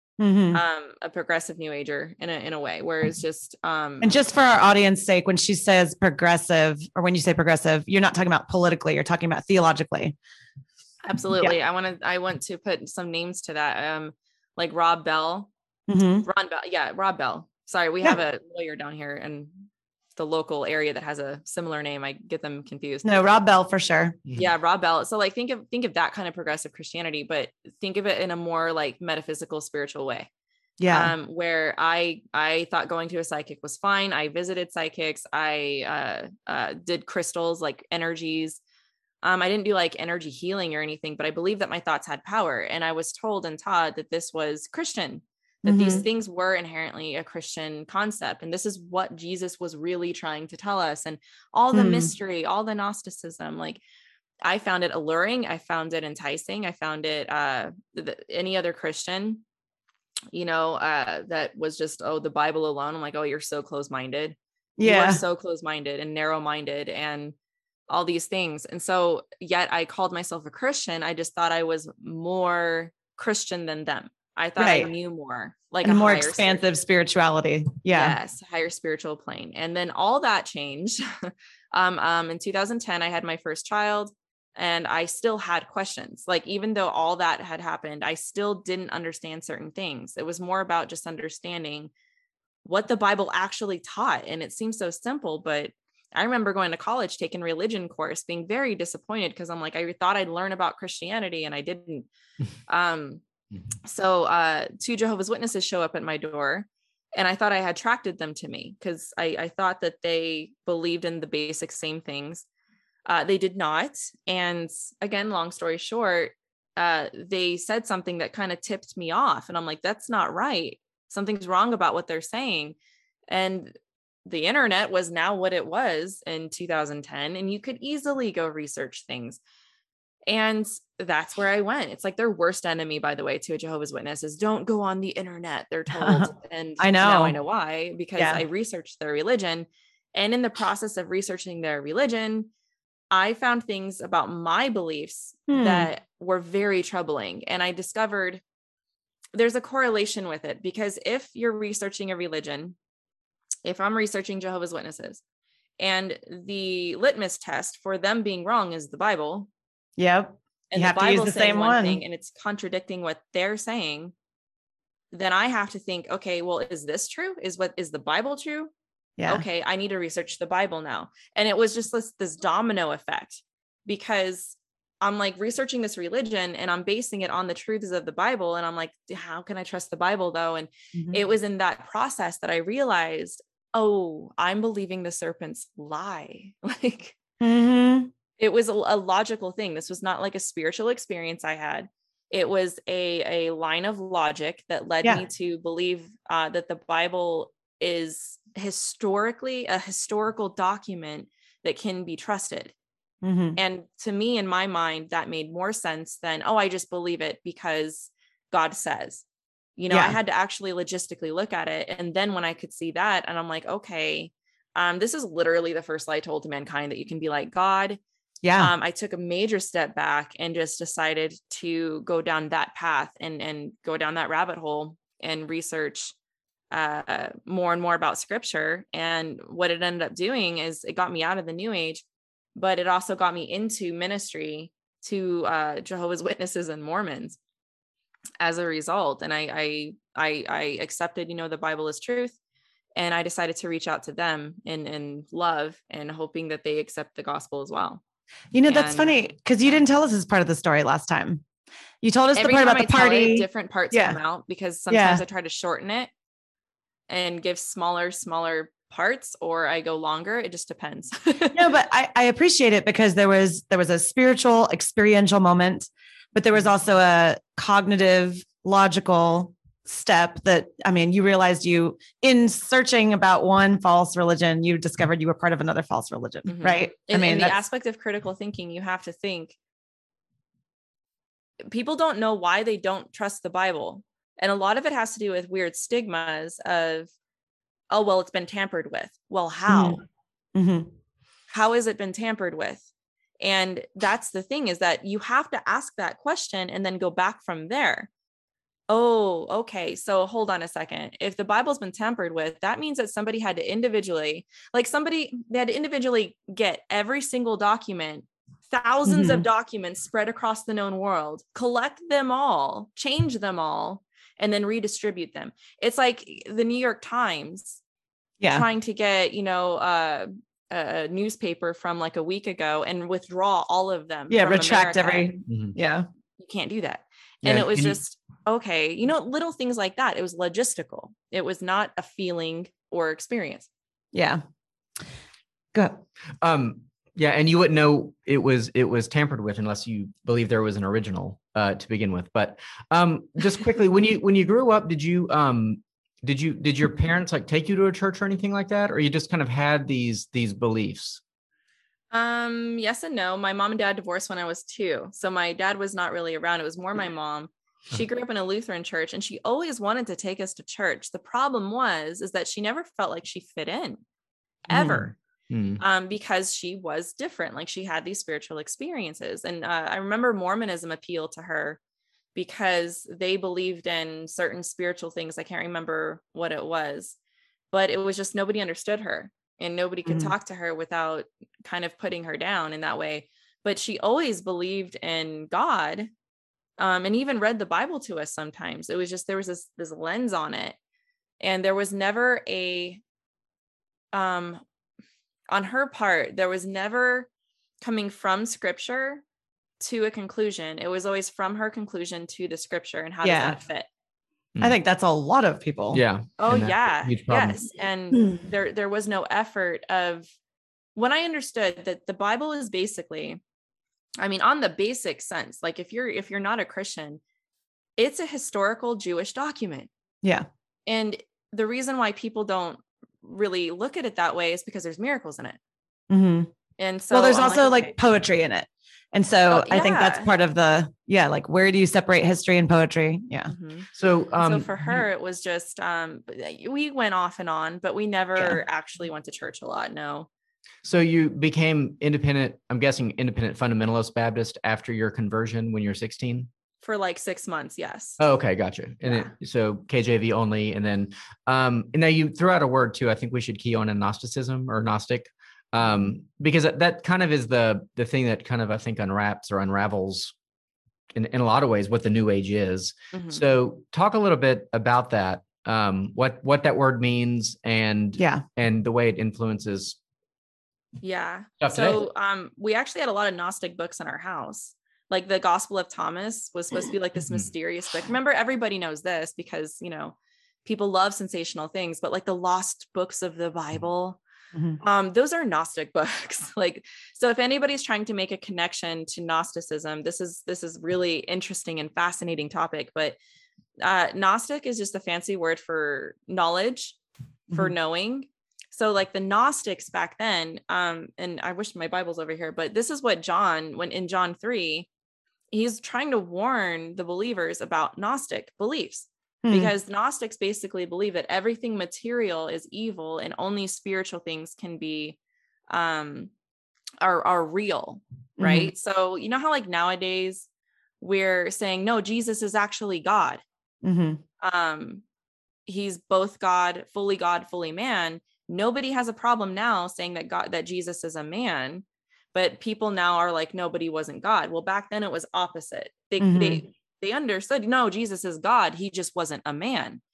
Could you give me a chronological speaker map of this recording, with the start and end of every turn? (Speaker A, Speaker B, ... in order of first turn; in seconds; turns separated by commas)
Speaker A: 0.2-0.6, Speaker B: 0.5-4.1, Speaker A: 4.0-10.2, Speaker B: 11.0-15.5, Speaker A: 15.9-16.3, Speaker B: 16.2-19.6, Speaker B: 20.2-23.1, Speaker A: 23.0-24.2, Speaker B: 24.3-30.3, Speaker A: 30.8-31.1, Speaker B: 30.9-38.6, Speaker B: 39.2-53.8, Speaker A: 45.7-46.0, Speaker A: 51.7-52.1, Speaker B: 54.4-59.4, Speaker B: 60.3-67.3, Speaker A: 64.8-65.2, Speaker B: 67.9-76.6, Speaker A: 74.6-74.9, Speaker A: 75.8-78.2, Speaker B: 77.9-91.9, Speaker B: 92.7-102.1, Speaker B: 102.7-103.2, Speaker B: 103.9-112.5, Speaker B: 113.1-122.8, Speaker B: 123.3-123.8, Speaker B: 124.3-129.4, Speaker B: 130.3-142.5, Speaker A: 135.9-137.4, Speaker B: 143.1-148.4, Speaker A: 145.5-145.9, Speaker B: 149.3-152.8, Speaker B: 153.7-155.2, Speaker B: 155.8-159.5, Speaker A: 160.0-162.0, Speaker B: 160.7-164.1, Speaker B: 165.1-168.7, Speaker A: 169.2-169.4, Speaker B: 169.3-187.2, Speaker A: 180.9-181.2, Speaker A: 187.4-188.1, Speaker B: 188.4-202.7, Speaker A: 203.2-203.6, Speaker B: 203.6-209.2, Speaker B: 209.8-218.0, Speaker A: 209.9-210.2, Speaker A: 218.4-218.7, Speaker B: 218.6-226.1, Speaker B: 226.7-232.0, Speaker B: 232.6-237.4, Speaker B: 238.4-242.4, Speaker B: 243.0-248.0, Speaker A: 248.5-251.4, Speaker B: 248.7-249.2, Speaker A: 252.0-254.2, Speaker B: 252.3-256.1, Speaker A: 254.9-255.2, Speaker B: 257.1-261.6, Speaker A: 261.5-277.6, Speaker B: 276.5-279.6, Speaker B: 281.7-287.1, Speaker B: 287.9-290.0, Speaker A: 289.7-290.0, Speaker A: 290.6-290.9, Speaker B: 291.5-292.8, Speaker B: 293.4-298.1, Speaker B: 298.9-317.8, Speaker A: 309.1-309.4, Speaker A: 318.4-318.7, Speaker B: 318.5-325.4, Speaker A: 324.3-326.1, Speaker C: 325.5-325.8, Speaker B: 326.4-333.7, Speaker C: 327.4-328.0, Speaker A: 334.1-334.4, Speaker A: 335.7-336.0, Speaker C: 336.4-351.2, Speaker B: 352.1-364.0, Speaker B: 364.7-365.1, Speaker A: 364.7-365.1, Speaker C: 365.5-365.8, Speaker B: 365.8-371.8, Speaker B: 372.4-377.2, Speaker B: 377.7-386.1, Speaker A: 380.1-380.3, Speaker B: 386.8-390.8, Speaker B: 391.4-393.0, Speaker B: 394.1-394.6, Speaker B: 395.5-397.3, Speaker B: 397.8-399.2, Speaker B: 399.8-403.9, Speaker A: 403.2-403.6, Speaker A: 404.6-406.0, Speaker C: 405.9-407.6, Speaker B: 406.4-410.3, Speaker B: 411.0-413.4, Speaker B: 414.2-417.2, Speaker B: 418.0-419.9, Speaker B: 420.9-425.6, Speaker A: 426.1-426.5, Speaker B: 426.8-427.9, Speaker A: 427.1-433.5, Speaker B: 429.5-430.3, Speaker B: 433.5-440.3, Speaker C: 433.9-435.0, Speaker C: 440.8-446.5, Speaker B: 446.8-448.2, Speaker C: 448.2-460.3, Speaker C: 461.1-470.0, Speaker B: 463.1-463.4, Speaker A: 468.2-468.4, Speaker B: 471.0-484.2, Speaker C: 471.6-472.0, Speaker A: 484.5-484.8, Speaker B: 484.8-493.2, Speaker B: 493.8-497.0, Speaker B: 497.5-504.9, Speaker B: 505.5-515.2, Speaker A: 509.4-509.7, Speaker B: 515.7-516.3, Speaker B: 517.0-520.5, Speaker A: 518.4-518.7, Speaker B: 521.0-523.4, Speaker A: 523.8-524.2, Speaker B: 524.4-525.0, Speaker B: 525.7-540.0, Speaker A: 536.2-536.6